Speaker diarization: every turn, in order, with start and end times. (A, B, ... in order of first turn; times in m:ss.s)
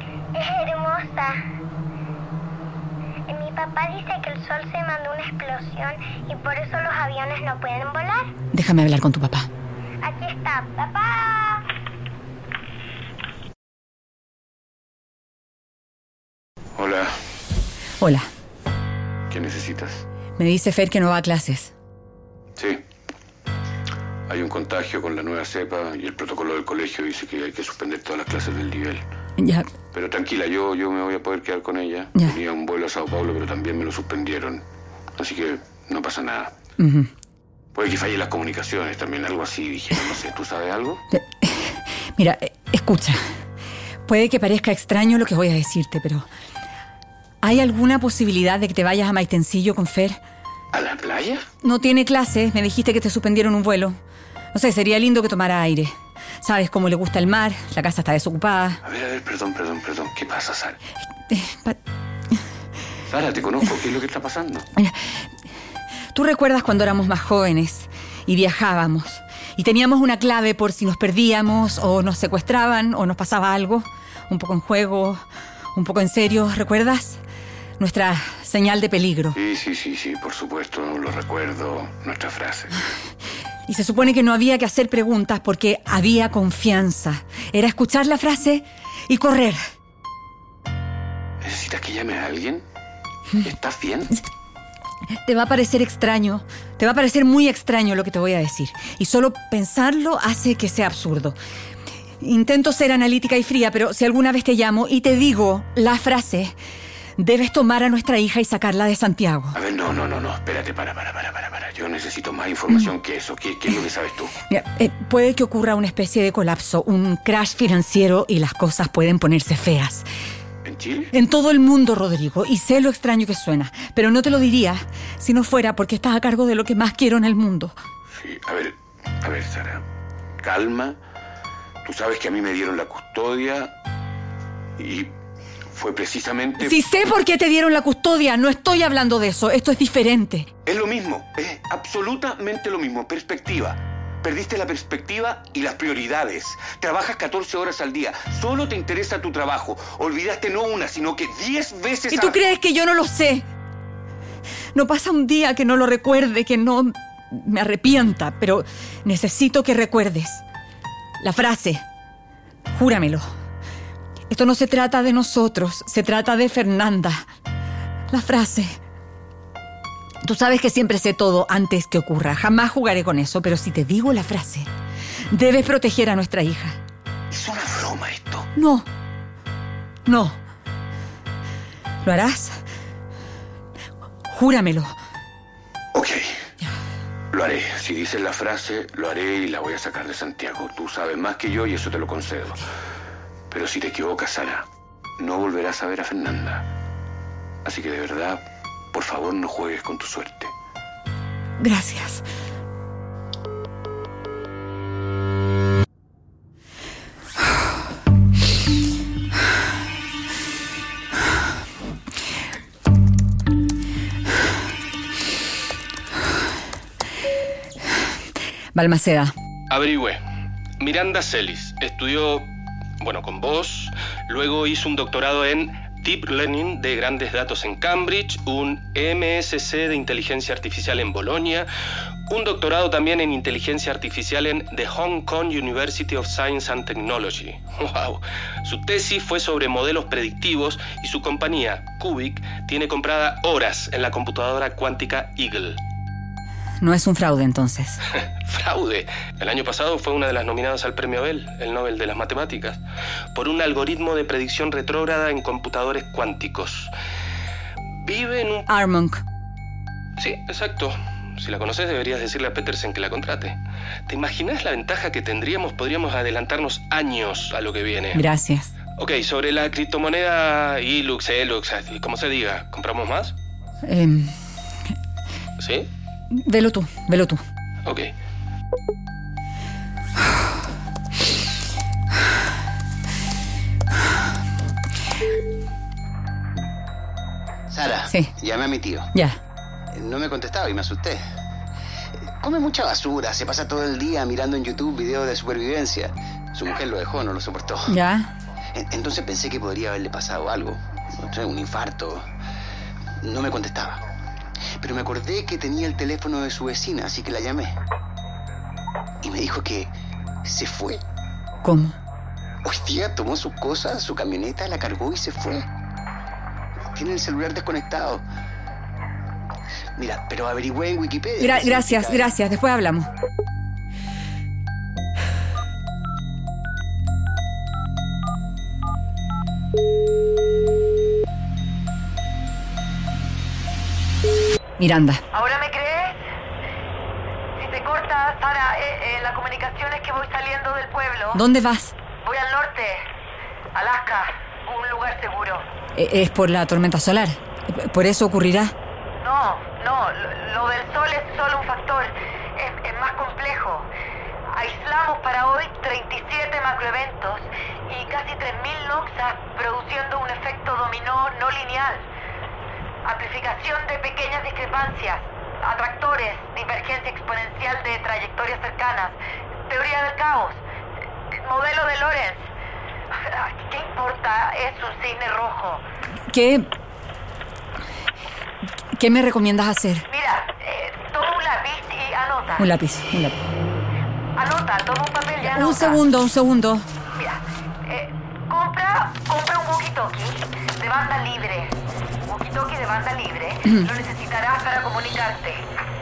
0:00.3-0:01.4 A
0:03.3-0:08.3 A
0:08.5-0:09.5 B
0:10.0-0:11.6 A
0:16.8-0:17.1 C
0:18.0-0:18.2 B
0:19.3-0:20.0 C
0:20.4-0:21.7 B
0:24.3-0:29.0 C
0:29.4-0:29.7 B
0:29.9-0:34.6 C
0:35.2-0:36.5 C
0:36.8-0:37.1 B
0:37.7-0:41.0 C
0:41.1-0:43.2 B
0:44.0-0:46.3 B
0:47.4-0:50.2 B
0:50.7-0:51.4 C
0:51.6-0:54.0 B
0:54.5-0:58.8 B
0:58.8-1:00.8 C
1:01.3-1:01.8 B
1:03.1-1:04.6 C
1:06.1-1:15.2 B
1:15.7-1:17.2 B
1:17.8-1:19.4 B
1:19.3-1:22.7 C
1:23.6-1:29.6 B
1:31.4-1:32.6 C
1:33.4-1:34.1 C
1:35.2-1:41.4 B
1:42.2-1:46.5 B
1:47.2-1:49.6 B
1:49.5-1:54.3 C
1:54.5-2:00.0 B
2:00.6-2:01.1 C
2:01.1-2:07.7 B
2:08.1-2:09.8 C
2:10.4-2:11.0 C
2:11.8-2:13.7 C
2:14.8-2:15.1 C
2:15.7-2:16.8 C
2:16.6-2:20.5 B
2:20.6-2:32.4 C
2:32.1-2:33.4 B
2:34.7-2:40.4 B
2:41.2-2:41.8 B
2:42.7-2:43.2 B
2:44.3-2:47.2 B
2:48.1-2:48.8 B
2:50.2-2:54.7 B
2:55.3-2:56.8 B
2:57.3-2:58.5 C
2:58.6-2:58.8 B
3:00.0-3:00.4 B
3:02.0-3:02.6 B
3:04.3-3:04.9 B
3:05.9-3:06.3 C
3:07.3-3:12.6 C
3:13.5-3:14.6 C
3:15.2-3:16.6 C
3:17.6-3:20.5 C
3:21.6-3:22.2 B
3:38.7-3:39.3 B
3:39.7-3:40.2 D
3:40.8-3:42.5 D
3:43.0-3:51.7 D
3:52.3-4:05.8 D
4:06.8-4:08.0 B
4:08.4-4:12.8 D
4:13.3-4:16.9 D
4:18.0-4:18.6 D
4:18.7-4:19.2 B
4:20.2-4:23.6 D
4:24.1-4:28.2 D
4:28.1-4:28.7 B
4:29.0-4:33.3 D
4:33.8-4:34.3 B
4:35.6-4:35.9 D
4:36.3-4:37.4 B
4:37.8-4:38.1 D
4:47.7-4:49.1 E
4:48.0-4:48.3 B
4:49.9-4:51.2 E
4:52.4-4:57.9 E
4:57.9-4:58.3 B
4:58.7-5:02.2 E
5:03.2-5:04.0 E
5:04.8-5:07.7 E
5:09.2-5:09.9 E
5:10.4-5:11.0 E
5:11.6-5:11.9 B
5:12.6-5:15.6 E
5:16.9-5:18.2 E
5:20.0-5:22.4 E
5:21.4-5:23.1 B
5:34.8-5:35.2 B
5:35.3-5:36.2 F
5:37.6-5:41.4 F
5:41.3-5:41.9 B
5:42.2-5:43.1 F
5:43.7-5:45.7 F
5:46.0-5:48.7 B
5:49.2-5:53.9 F
5:54.4-6:02.1 F
6:03.0-6:10.6 F
6:11.3-6:12.5 F
6:13.1-6:15.8 F
6:16.3-6:16.7 B
6:18.9-6:20.0 B
6:20.0-6:22.7 F
6:22.6-6:23.4 B
6:24.4-6:26.0 F
6:25.4-6:26.9 B
6:27.1-6:35.7 F